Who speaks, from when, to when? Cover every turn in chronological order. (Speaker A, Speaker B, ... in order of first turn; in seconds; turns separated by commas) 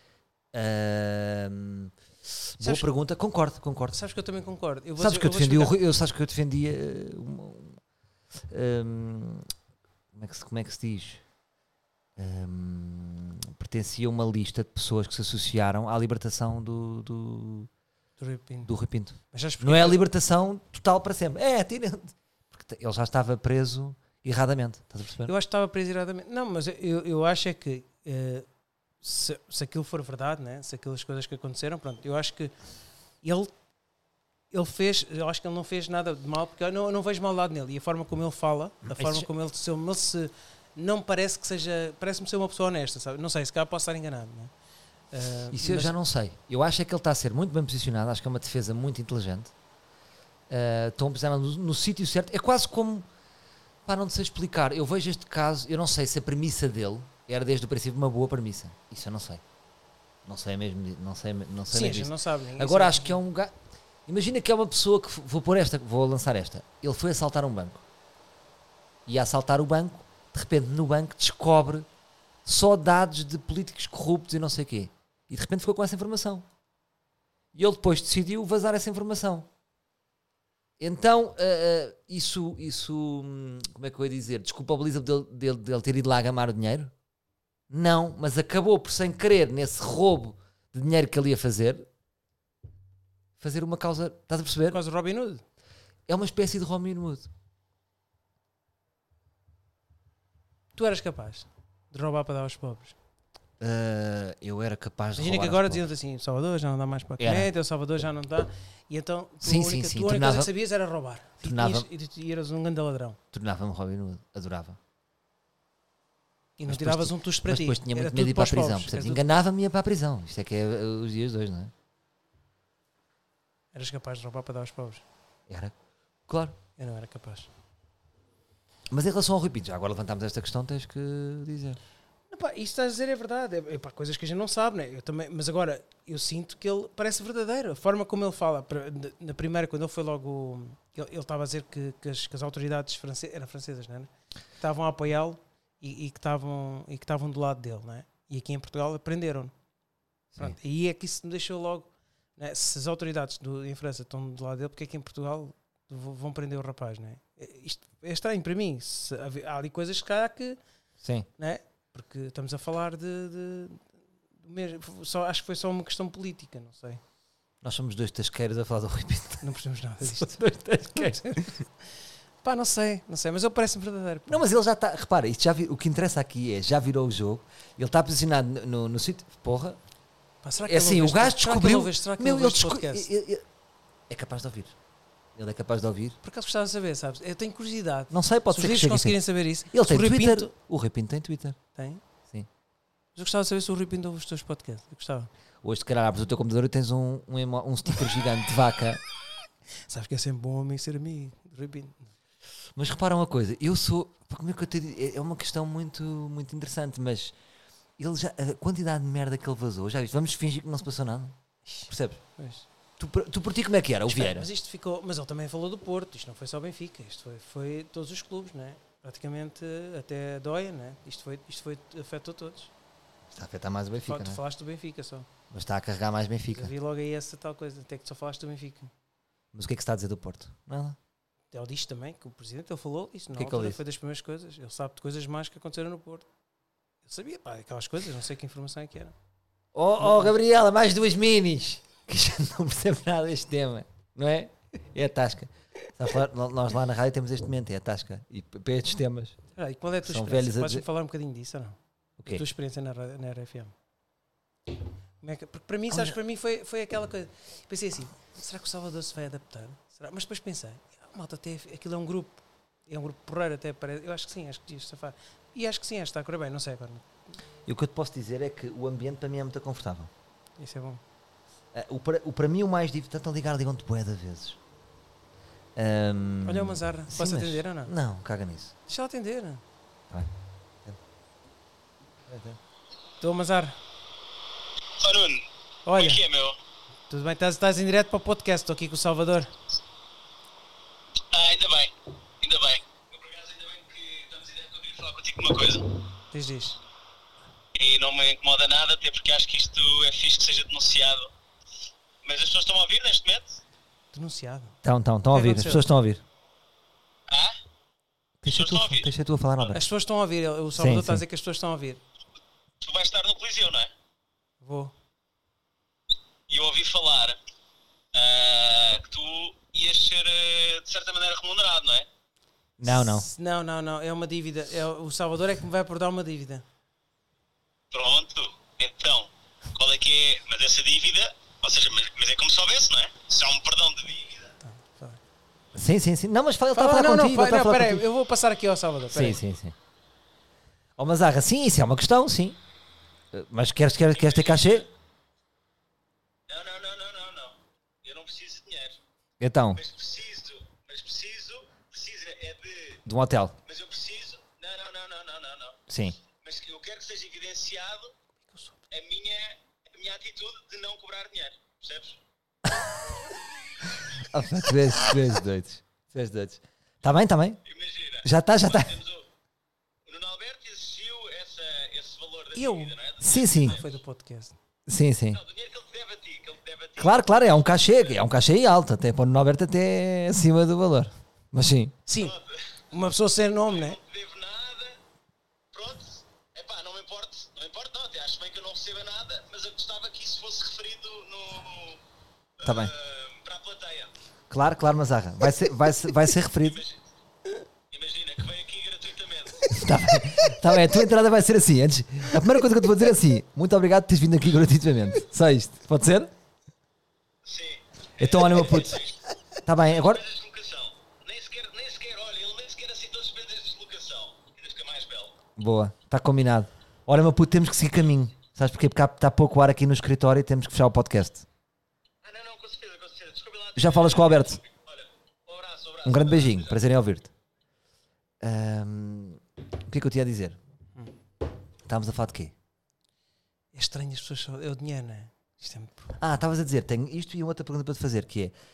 Speaker A: 0.5-1.9, Speaker A: 2.5-4.0, Speaker B: 2.6-2.9, Speaker B: 3.9-5.8, Speaker A: 5.0-7.8, Speaker A: 8.5-9.5, Speaker A: 10.1-11.2, Speaker A: 12.2-17.7, Speaker B: 18.2-18.7, Speaker A: 18.7-25.3, Speaker B: 19.3-20.0, Speaker B: 25.3-28.5, Speaker B: 29.0-32.5, Speaker B: 33.2-33.5, Speaker B: 34.5-44.5, Speaker A: 38.9-39.3, Speaker B: 45.1-45.9, Speaker A: 45.5-49.5, Speaker A: 50.5-53.1, Speaker A: 53.9-59.4, Speaker A: 60.2-63.5, Speaker B: 61.7-63.2, Speaker A: 64.1-67.8, Speaker A: 69.1-71.9, Speaker A: 72.5-76.5, Speaker A: 77.5-79.5, Speaker A: 80.8-86.9, Speaker A: 87.7-91.9, Speaker A: 93.4-94.8, Speaker B: 94.7-95.4, Speaker A: 96.1-97.3, Speaker B: 100.8-103.0, Speaker A: 103.6-105.8, Speaker B: 105.2-113.2, Speaker A: 107.2-107.5, Speaker A: 109.4-110.5, Speaker A: 111.4-111.9, Speaker A: 113.3-114.8, Speaker B: 116.6-119.2, Speaker A: 116.7-121.7, Speaker B: 123.7-125.0, Speaker A: 125.5-125.8, Speaker A: 126.3-126.6, Speaker B: 126.8-127.5, Speaker A: 128.9-131.8, Speaker B: 132.3-149.5, Speaker B: 150.4-160.6, Speaker A: 161.0-161.3, Speaker B: 161.4-163.9, Speaker B: 164.4-167.0, Speaker A: 167.6-171.6, Speaker B: 169.4-171.6, Speaker B: 172.4-174.4, Speaker A: 174.3-179.8, Speaker B: 180.4-183.1, Speaker A: 180.6-183.4, Speaker A: 184.1-184.8, Speaker A: 185.4-186.2, Speaker B: 186.2-190.5, Speaker A: 188.1-191.6, Speaker B: 191.8-192.0, Speaker B: 193.2-195.3, Speaker A: 195.6-199.0, Speaker B: 199.9-202.1, Speaker A: 202.8-207.3, Speaker A: 208.0-211.4, Speaker B: 211.7-212.7, Speaker A: 211.9-212.2, Speaker A: 213.0-214.5, Speaker B: 214.1-222.7, Speaker A: 223.3-224.4, Speaker B: 224.0-225.3, Speaker A: 225.5-226.7, Speaker B: 226.5-228.9, Speaker A: 229.5-231.0, Speaker B: 231.5-236.3, Speaker A: 233.3-233.8, Speaker B: 237.1-239.1, Speaker A: 239.7-249.4, Speaker B: 240.0-240.3, Speaker B: 249.6-253.7, Speaker A: 250.0-250.8, Speaker A: 252.2-252.4, Speaker B: 255.2-267.1, Speaker A: 255.9-256.2, Speaker A: 267.7-270.1, Speaker B: 270.6-271.0, Speaker A: 271.7-274.6, Speaker A: 275.8-278.8, Speaker B: 276.4-277.9, Speaker B: 278.9-279.6, Speaker A: 282.3-282.6, Speaker B: 283.2-283.8, Speaker C: 285.0-286.6, Speaker B: 285.9-286.2, Speaker B: 287.1-289.5, Speaker C: 291.3-296.0, Speaker B: 296.3-296.8, Speaker C: 297.8-301.3, Speaker C: 302.2-303.6, Speaker B: 304.1-304.8, Speaker A: 304.8-306.2, Speaker B: 305.3-305.9, Speaker C: 307.3-307.6, Speaker A: 308.4-309.8, Speaker C: 308.5-309.1, Speaker B: 309.7-312.0, Speaker A: 310.8-311.2, Speaker C: 312.8-313.9, Speaker B: 314.6-314.9, Speaker C: 316.5-317.4, Speaker C: 318.1-322.1, Speaker A: 322.8-323.3, Speaker B: 322.8-326.6, Speaker C: 327.9-334.5, Speaker B: 334.6-335.2, Speaker A: 335.8-338.1, Speaker B: 336.7-339.4, Speaker A: 339.1-339.8, Speaker A: 341.0-342.6, Speaker A: 343.3-344.9, Speaker C: 344.1-344.9, Speaker C: 346.5-349.0, Speaker A: 349.4-349.8, Speaker C: 349.7-353.0, Speaker A: 353.1-353.6, Speaker C: 353.7-358.1, Speaker A: 355.9-356.2, Speaker B: 358.5-358.8, Speaker C: 358.9-362.2, Speaker A: 364.3-367.6, Speaker C: 367.7-369.3, Speaker A: 368.2-369.0, Speaker C: 370.1-373.9, Speaker B: 372.5-372.9, Speaker A: 373.2-373.8, Speaker B: 373.6-374.6, Speaker A: 374.9-375.4, Speaker C: 375.3-377.2, Speaker A: 377.0-381.9, Speaker B: 382.1-382.4, Speaker C: 382.2-382.6, Speaker B: 382.9-384.0, Speaker C: 383.7-385.0, Speaker C: 385.7-392.0, Speaker C: 392.6-394.1, Speaker A: 392.6-392.9, Speaker A: 394.5-396.8, Speaker C: 396.6-397.0, Speaker C: 397.9-399.8, Speaker A: 399.7-406.3, Speaker C: 407.4-409.2, Speaker A: 408.2-409.0, Speaker A: 409.6-410.2, Speaker C: 409.9-415.4, Speaker A: 415.6-421.5, Speaker C: 422.2-426.8, Speaker A: 423.8-424.6, Speaker A: 426.1-427.3, Speaker A: 428.4-430.6, Speaker A: 431.9-432.5, Speaker B: 433.7-436.2, Speaker A: 436.2-438.5